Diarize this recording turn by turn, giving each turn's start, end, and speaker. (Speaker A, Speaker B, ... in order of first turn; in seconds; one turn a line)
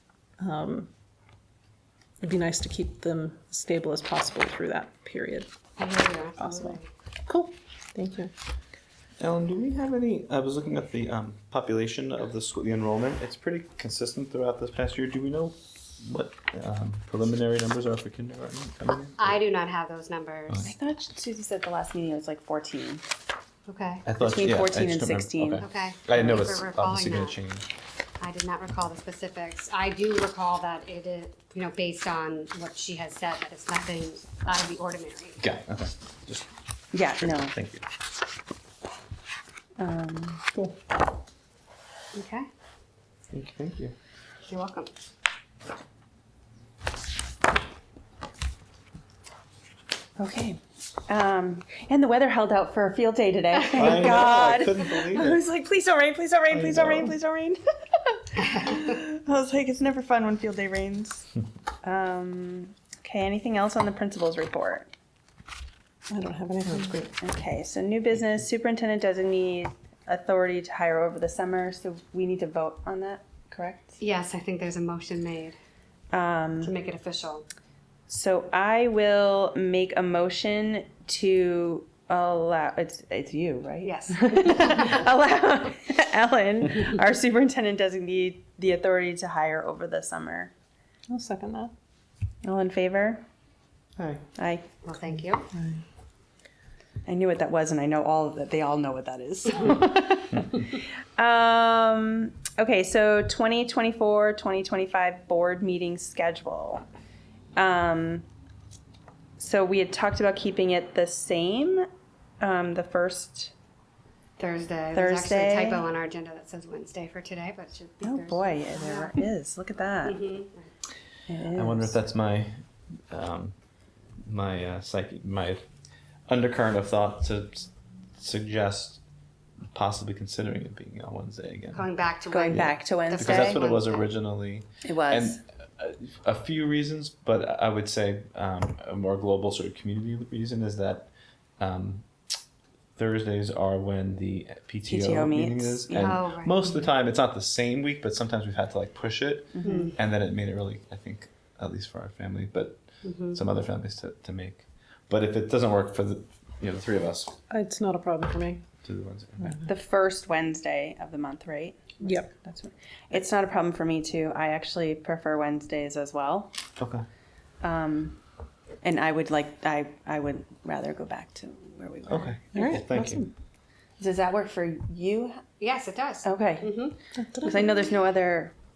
Speaker A: 0.4-0.9
Speaker A: 2.2-5.5
Speaker B: 5.8-6.9
Speaker A: 6.4-8.3
Speaker C: 9.2-19.4
Speaker B: 19.2-20.7
Speaker D: 20.6-23.0
Speaker B: 23.7-24.1
Speaker C: 24.1-27.7
Speaker D: 24.2-25.6
Speaker B: 25.6-27.4
Speaker B: 28.2-35.4
Speaker C: 35.4-36.5
Speaker D: 36.9-37.6
Speaker C: 37.2-37.9
Speaker D: 39.8-40.4
Speaker B: 42.1-42.5
Speaker C: 43.3-44.0
Speaker B: 44.5-44.9
Speaker D: 50.2-61.3
Speaker C: 53.7-55.4
Speaker C: 56.5-57.1
Speaker D: 61.8-64.9
Speaker A: 66.1-67.0
Speaker C: 66.7-67.1
Speaker D: 67.1-74.0
Speaker B: 74.0-75.5
Speaker D: 76.1-76.7
Speaker B: 76.6-77.5
Speaker D: 78.1-90.5
Speaker B: 83.8-85.0
Speaker A: 91.1-91.7
Speaker D: 92.4-93.2
Speaker C: 94.0-94.2
Speaker D: 94.4-94.7
Speaker B: 94.8-95.5
Speaker D: 97.1-106.8
Speaker D: 107.6-108.3
Speaker D: 109.4-111.9
Speaker D: 112.4-113.5
Speaker B: 114.4-119.2
Speaker D: 114.9-115.8
Speaker D: 118.0-120.2
Speaker B: 120.0-120.7
Speaker D: 121.3-122.0
Speaker C: 121.5-122.6
Speaker C: 123.1-123.5
Speaker C: 124.3-125.6
Speaker C: 126.3-129.0
Speaker C: 129.7-131.8
Speaker B: 131.7-134.1
Speaker D: 132.3-133.6
Speaker C: 132.5-142.1
Speaker D: 134.8-135.4
Speaker C: 143.0-157.3
Speaker D: 144.9-146.2
Speaker B: 145.9-146.8
Speaker D: 149.6-149.9
Speaker B: 149.6-150.0
Speaker B: 153.0-153.4
Speaker A: 157.5-158.6
Speaker C: 158.8-159.7
Speaker D: 159.7-166.5
Speaker A: 162.0-162.3
Speaker C: 166.8-167.1
Speaker D: 167.6-168.2
Speaker D: 168.8-172.8
Speaker C: 172.1-173.3
Speaker A: 172.5-173.3
Speaker D: 174.0-175.4
Speaker B: 175.6-177.0
Speaker D: 176.2-178.5
Speaker A: 177.2-177.7